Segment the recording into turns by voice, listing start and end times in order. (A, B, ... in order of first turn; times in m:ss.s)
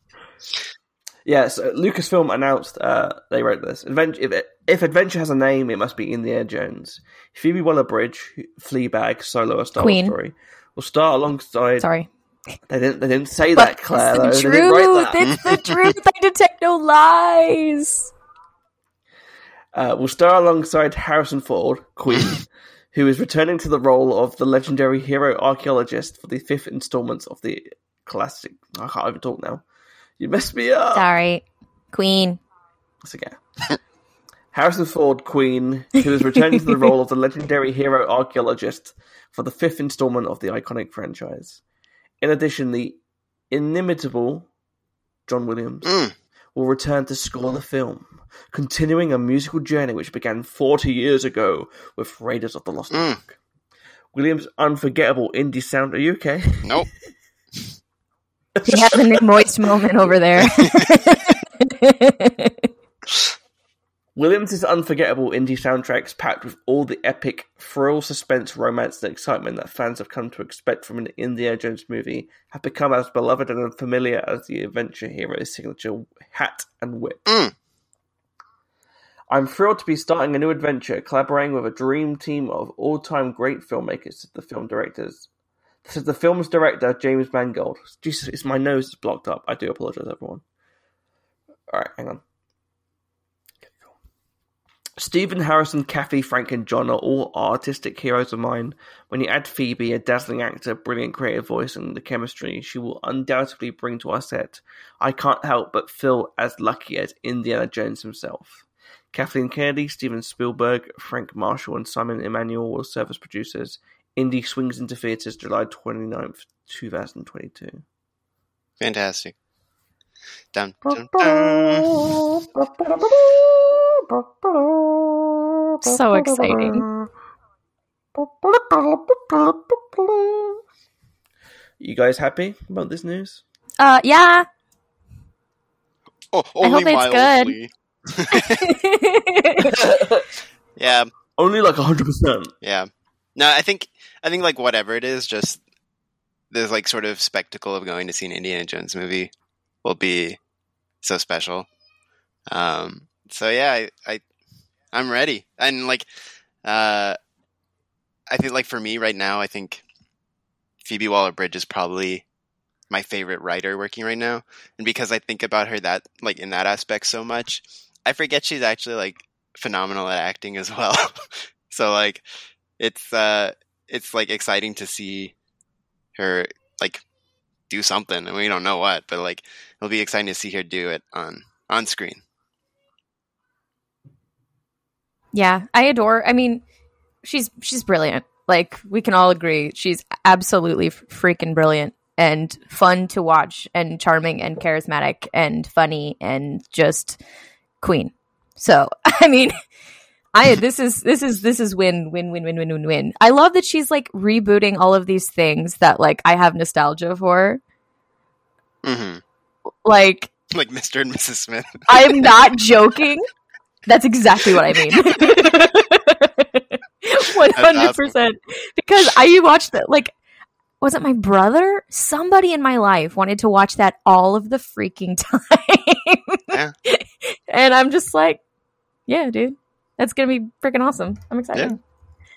0:01.2-0:11.9 A
0:09.8-0:10.2 B
0:11.8-0:12.1 B
0:12.7-0:15.3 A
0:13.5-0:18.1 B
0:15.3-0:15.7 C
0:19.7-0:29.6 A
0:30.2-0:31.1 A
0:30.9-0:32.4 B
0:33.0-0:33.4 A
0:34.5-0:41.6 A
0:42.2-0:43.0 A
0:43.5-0:44.5 A
0:45.3-0:45.9 A
0:45.8-0:46.1 C
0:46.6-0:53.4 A
0:52.9-0:53.2 C
0:54.1-0:56.8 A
0:58.6-0:59.3 A
0:58.7-1:02.7 B
1:00.4-1:01.0 C
1:04.2-1:17.2 A
1:17.3-1:17.5 C
1:19.3-1:25.3 A
1:25.8-1:30.4 A
1:31.7-1:32.2 A
1:33.6-1:33.9 A
1:35.0-1:57.8 A
1:58.8-1:59.3 C
2:00.5-2:02.2 C
2:00.9-2:07.1 A
2:05.8-2:06.9 B
2:08.2-2:10.6 A
2:11.8-2:13.4 A
2:13.8-2:14.5 B
2:16.3-2:18.7 C
2:16.6-2:17.6 B
2:18.3-2:19.8 B
2:19.7-2:20.3 A
2:20.8-2:21.1 C
2:21.4-2:22.5 A
2:22.6-2:25.6 C
2:26.5-2:29.3 C
2:29.8-2:30.4 C
2:31.0-2:31.7 C
2:32.5-2:34.2 C
2:34.9-2:36.1 C
2:36.6-2:37.2 C
2:38.3-2:39.8 C
2:40.8-2:42.2 C
2:42.9-2:52.2 C
2:52.8-2:55.3 C
2:56.2-2:57.0 C
2:57.7-3:02.2 C
3:05.3-3:06.6 B
3:07.2-3:17.2 B
3:17.8-3:19.6 B
3:20.3-3:27.6 B
3:28.8-3:29.2 C
3:29.8-3:30.3 B
3:30.5-3:32.4 C
3:31.9-3:33.3 B
3:33.9-3:40.1 B
3:34.8-3:35.2 C
3:37.6-3:38.1 C
3:40.8-3:48.4 B
3:49.1-3:51.8 B